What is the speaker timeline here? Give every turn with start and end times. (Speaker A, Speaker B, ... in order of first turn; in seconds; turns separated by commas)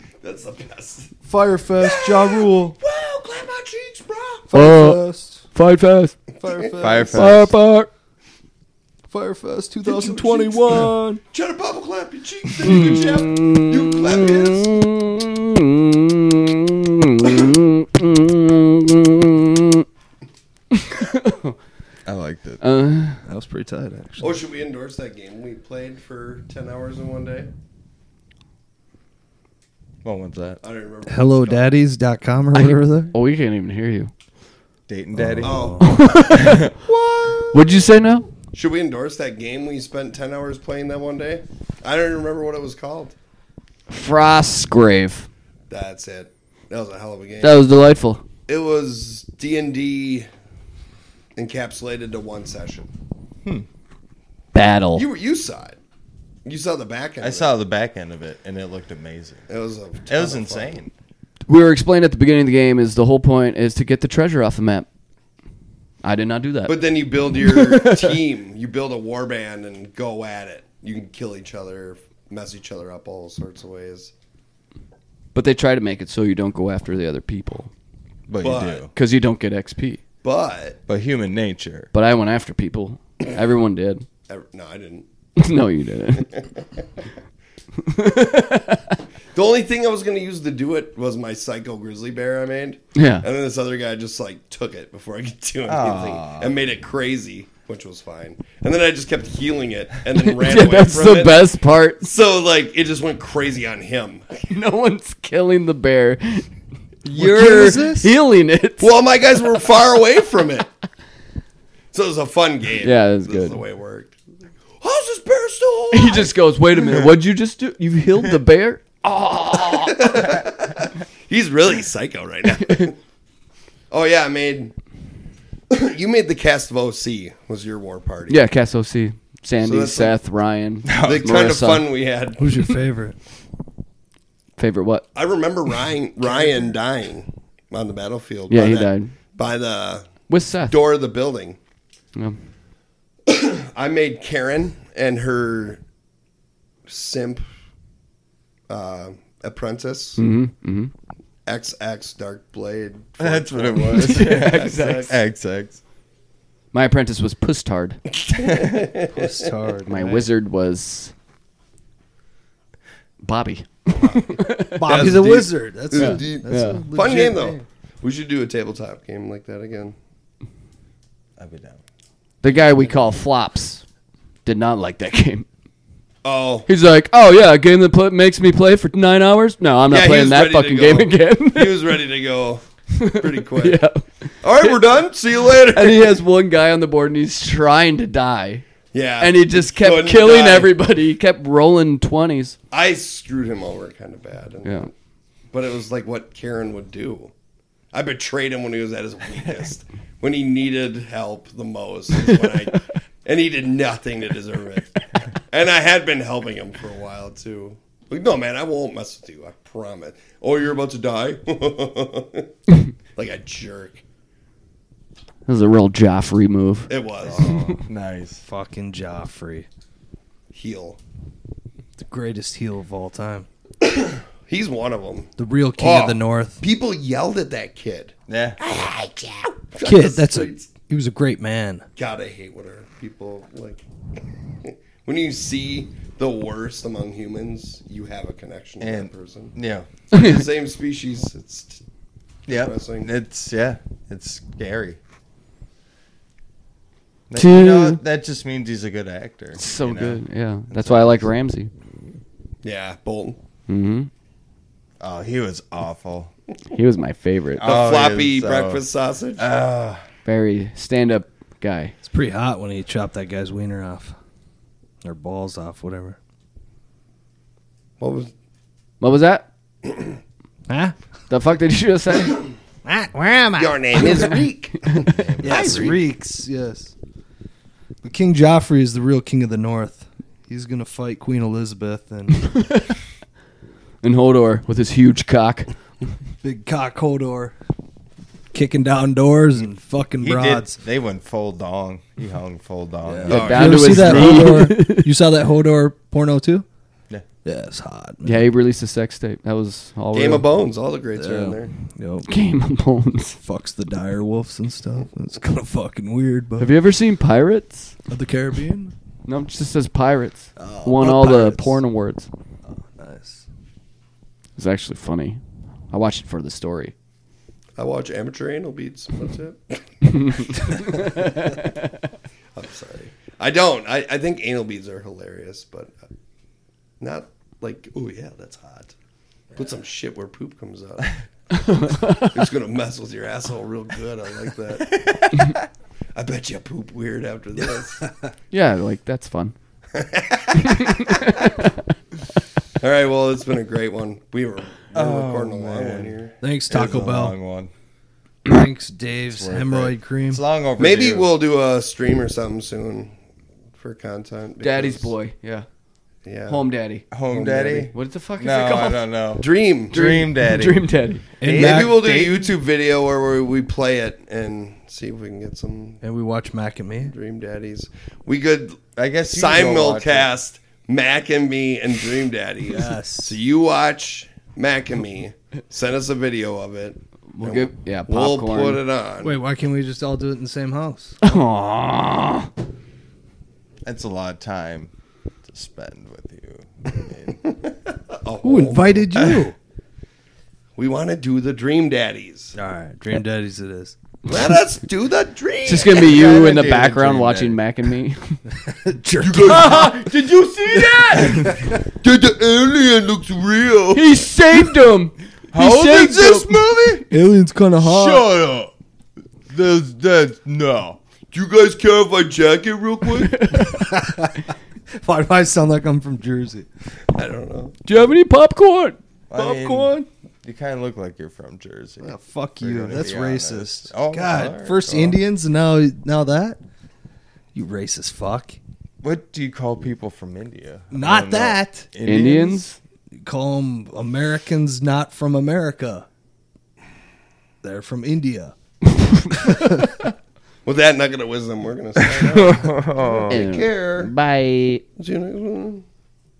Speaker A: 0.2-1.1, Speaker B: 1.2-2.7, Speaker A: 1.8-4.5, Speaker B: 4.5-5.5, Speaker C: 4.5-6.2, Speaker A: 6.3-7.0, Speaker B: 6.4-7.3, Speaker D: 6.8-7.5, Speaker C: 7.1-7.9, Speaker B: 9.1-11.2, Speaker A: 9.8-14.8, Speaker C: 12.6-19.9, Speaker C: 20.7-21.6, Speaker D: 22.1-22.6, Speaker C: 22.6-23.2, Speaker B: 23.2-24.4, Speaker A: 24.2-27.5, Speaker D: 30.0-30.6, Speaker A: 30.6-31.8, Speaker B: 31.1-33.1, Speaker C: 32.5-34.1, Speaker D: 34.9-35.7, Speaker B: 35.1-35.8, Speaker A: 35.4-37.8, Speaker C: 35.8-36.8, Speaker D: 36.3-36.7, Speaker C: 37.5-38.3, Speaker A: 38.5-43.1, Speaker C: 43.9-45.3, Speaker A: 45.7-47.6, Speaker C: 47.4-48.2, Speaker A: 48.5-50.3, Speaker A: 51.4-52.9, Speaker C: 54.5-55.0, Speaker A: 54.9-55.8, Speaker A: 56.4-57.5, Speaker D: 57.2-59.5, Speaker A: 59.5-60.8, Speaker D: 60.1-60.9, Speaker C: 61.5-64.9, Speaker C: 66.0-66.8, Speaker A: 66.7-74.1, Speaker C: 67.4-68.2, Speaker C: 75.3-77.7, Speaker D: 78.3-78.9, Speaker A: 78.4-78.9, Speaker C: 78.9-80.0, Speaker A: 80.2-80.8, Speaker D: 80.9-81.9, Speaker C: 81.9-84.0, Speaker A: 84.3-85.0, Speaker C: 85.4-86.3, Speaker A: 86.2-86.5, Speaker C: 87.8-89.0, Speaker A: 89.3-104.5, Speaker C: 92.9-93.2, Speaker D: 95.7-96.5, Speaker C: 100.2-102.1, Speaker C: 104.5-106.5, Speaker C: 107.0-108.9, Speaker B: 107.1-108.1, Speaker A: 108.8-110.7, Speaker A: 111.9-114.1, Speaker C: 112.8-113.6, Speaker A: 114.8-116.4, Speaker C: 115.9-120.4, Speaker A: 119.6-123.0, Speaker C: 122.6-122.9, Speaker A: 123.9-124.7, Speaker A: 125.7-128.4, Speaker C: 128.3-131.9, Speaker A: 129.6-130.2, Speaker D: 130.9-131.3, Speaker A: 131.0-132.7, Speaker B: 132.4-133.2, Speaker C: 134.6-135.1, Speaker A: 135.1-141.6, Speaker C: 138.5-139.1, Speaker C: 140.3-140.8, Speaker A: 143.2-145.8, Speaker A: 146.9-147.4, Speaker A: 148.7-150.2, Speaker C: 150.2-150.9, Speaker A: 151.4-155.2, Speaker D: 153.2-155.8, Speaker C: 153.9-155.1, Speaker C: 156.7-158.0, Speaker A: 158.2-160.2, Speaker D: 158.4-158.8, Speaker B: 159.1-160.2, Speaker C: 159.9-161.1, Speaker C: 163.2-165.1, Speaker A: 164.0-169.9, Speaker B: 164.7-167.6, Speaker C: 165.9-166.8, Speaker D: 171.4-171.8, Speaker C: 172.4-173.8, Speaker C: 174.4-175.4, Speaker A: 176.2-176.7, Speaker C: 176.7-181.9, Speaker A: 179.9-183.8, Speaker C: 182.9-184.8, Speaker A: 184.4-186.2, Speaker C: 185.7-188.7, Speaker A: 188.9-190.7, Speaker C: 189.2-192.6, Speaker A: 192.7-194.9, Speaker A: 195.5-197.3, Speaker A: 197.9-212.5, Speaker C: 202.1-202.8, Speaker A: 213.1-214.0, Speaker C: 215.5-217.8, Speaker A: 216.9-217.8, Speaker D: 217.7-218.4, Speaker B: 218.4-219.7, Speaker A: 220.5-221.0, Speaker B: 222.0-223.5, Speaker A: 223.8-230.7, Speaker B: 225.4-226.6, Speaker D: 228.3-228.6, Speaker B: 229.8-231.8, Speaker A: 231.9-233.8, Speaker A: 234.6-239.5, Speaker D: 238.8-239.9, Speaker C: 240.1-240.4, Speaker A: 240.1-241.8, Speaker D: 242.5-245.0, Speaker A: 242.5-243.1, Speaker D: 247.3-251.2, Speaker C: 247.3-248.0, Speaker C: 249.6-251.7, Speaker A: 252.6-253.4, Speaker C: 253.7-254.1, Speaker D: 255.0-256.3, Speaker C: 256.7-257.6, Speaker D: 257.6-258.8, Speaker A: 257.6-259.5, Speaker D: 259.4-260.0, Speaker C: 260.2-261.9, Speaker B: 262.0-264.1, Speaker B: 265.0-266.2, Speaker A: 268.0-268.3, Speaker C: 269.0-269.4, Speaker A: 269.9-270.1, Speaker B: 270.7-270.9, Speaker C: 271.3-272.5, Speaker B: 272.8-274.4, Speaker A: 273.6-276.0, Speaker C: 274.8-275.9, Speaker B: 275.4-276.9, Speaker B: 278.0-282.5, Speaker C: 282.5-282.9, Speaker C: 284.0-285.7, Speaker B: 286.4-287.5, Speaker B: 288.5-290.8, Speaker D: 290.2-294.3, Speaker B: 293.1-296.6, Speaker C: 293.3-295.1, Speaker A: 293.3-294.6, Speaker B: 297.4-298.5, Speaker C: 298.2-300.5, Speaker A: 300.1-301.7, Speaker B: 301.1-302.3, Speaker C: 302.3-303.4, Speaker B: 303.4-306.7, Speaker C: 306.6-307.9, Speaker B: 308.1-308.9, Speaker C: 309.2-312.3, Speaker B: 310.6-311.8, Speaker B: 312.7-313.4, Speaker C: 314.6-315.4, Speaker C: 315.9-316.9, Speaker A: 317.8-321.5, Speaker C: 320.1-321.7, Speaker A: 322.5-325.9, Speaker A: 327.0-328.9, Speaker A: 329.5-335.6, Speaker C: 331.6-332.2, Speaker A: 336.1-338.1, Speaker B: 338.0-338.3, Speaker C: 338.5-339.5, Speaker A: 339.9-341.1, Speaker C: 340.6-341.7, Speaker A: 342.8-346.4, Speaker D: 344.9-346.1, Speaker B: 346.4-347.4, Speaker D: 346.7-347.7, Speaker B: 348.4-350.4, Speaker D: 349.3-351.3, Speaker A: 350.8-353.1, Speaker A: 353.8-355.1, Speaker C: 354.6-355.7, Speaker A: 356.2-356.6, Speaker C: 356.5-357.0, Speaker D: 357.1-360.8, Speaker A: 357.3-357.9, Speaker C: 357.9-359.0, Speaker A: 359.4-359.9, Speaker C: 359.9-362.1, Speaker B: 361.4-362.3, Speaker A: 361.4-366.0, Speaker B: 366.0-367.1, Speaker A: 367.0-379.4, Speaker D: 368.9-370.3, Speaker B: 372.7-373.4, Speaker C: 377.3-378.8, Speaker B: 379.2-381.2, Speaker C: 381.2-382.5, Speaker D: 383.9-384.9, Speaker D: 385.5-387.4, Speaker A: 387.4-389.1, Speaker B: 388.4-389.5, Speaker D: 389.1-389.4, Speaker A: 390.8-392.5, Speaker B: 392.5-393.9, Speaker A: 394.3-396.5, Speaker C: 394.3-394.5, Speaker C: 395.6-398.4, Speaker D: 395.9-397.6, Speaker B: 398.6-399.8, Speaker A: 399.2-400.1, Speaker D: 399.4-401.7, Speaker B: 401.1-401.7, Speaker A: 401.8-404.3, Speaker C: 403.9-406.5, Speaker D: 405.5-407.1, Speaker B: 407.1-408.3, Speaker D: 407.8-408.7, Speaker D: 409.5-411.0, Speaker A: 411.3-413.6, Speaker C: 413.2-413.9, Speaker B: 413.7-416.7, Speaker A: 417.1-417.8, Speaker C: 417.9-419.0, Speaker D: 419.3-425.2, Speaker B: 419.3-420.1, Speaker B: 422.0-426.6, Speaker B: 427.5-428.6, Speaker D: 429.0-432.7, Speaker B: 430.9-431.9, Speaker C: 432.1-432.8, Speaker B: 433.2-436.1, Speaker B: 437.6-438.5, Speaker C: 439.1-439.9, Speaker B: 439.4-439.8, Speaker A: 440.6-444.1, Speaker D: 441.9-443.4, Speaker C: 443.3-444.8, Speaker A: 445.0-445.8